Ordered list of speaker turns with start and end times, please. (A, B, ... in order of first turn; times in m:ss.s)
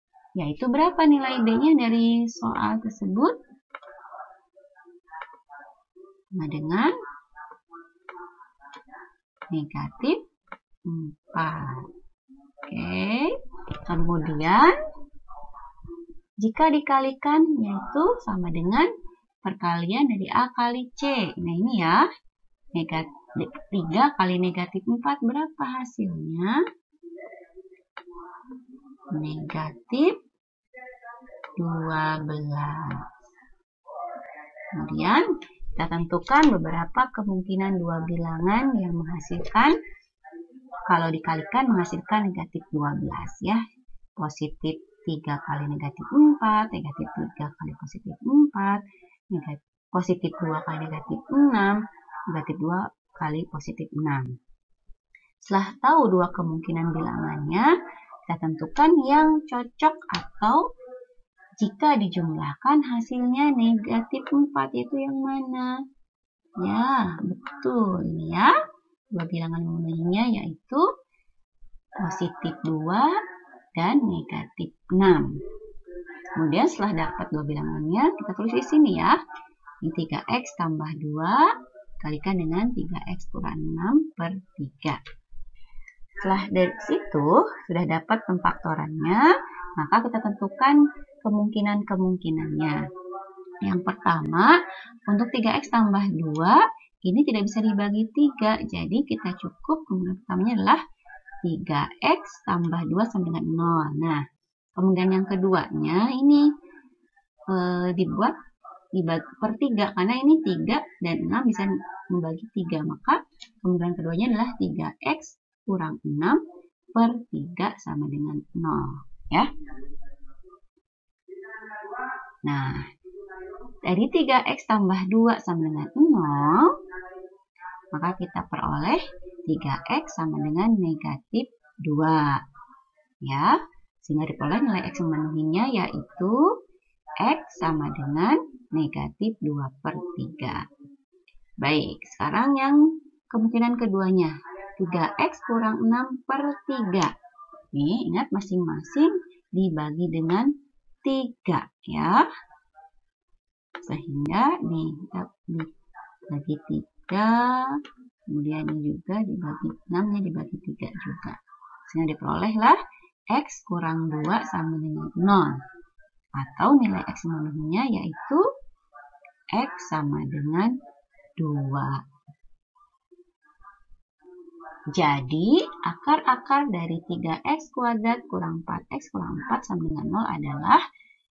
0:00.4-0:03.4 A
0:06.3-0:06.9 A
0:09.5-0:10.2 A
0:10.8-0:11.9 A
0:12.6-0:14.8 A
0:16.4-0:18.9 A
0:19.4-0:22.0 A
0:22.7-0:26.6 A
0:29.1-0:30.2 A
0:31.6-0:33.0 A
0:34.7-0:39.8 A
0:40.8-0:43.6 A
0:44.2-0:51.8 A
0:52.3-0:54.3 A
0:55.4-0:57.7 A
0:58.3-1:00.6 A
1:01.6-1:05.7 A
1:06.6-1:08.5 A
1:09.1-1:10.8 A
1:12.0-1:13.1 A
1:13.8-1:15.4 A
1:16.4-1:19.2 A
1:19.8-1:21.5 A
1:22.0-1:25.0 A
1:26.2-1:32.8 A
1:33.6-1:40.8 A
1:41.4-1:44.2 A
1:44.8-1:46.5 A
1:47.5-1:48.4 A
1:48.9-1:56.4 A
1:56.9-1:59.5 A
2:02.4-2:02.8 A
2:03.8-2:06.7 A
2:07.9-2:12.4 A
2:13.2-2:16.5 A
2:17.2-2:20.6 A
2:21.6-2:27.1 A
2:27.7-2:30.5 A
2:31.0-2:32.3 A
2:33.8-2:35.7 A
2:36.3-2:42.8 A
2:43.3-2:45.6 A
2:46.4-2:48.4 A
2:49.5-2:50.7 A
2:51.4-2:52.0 A
2:54.9-3:00.8 A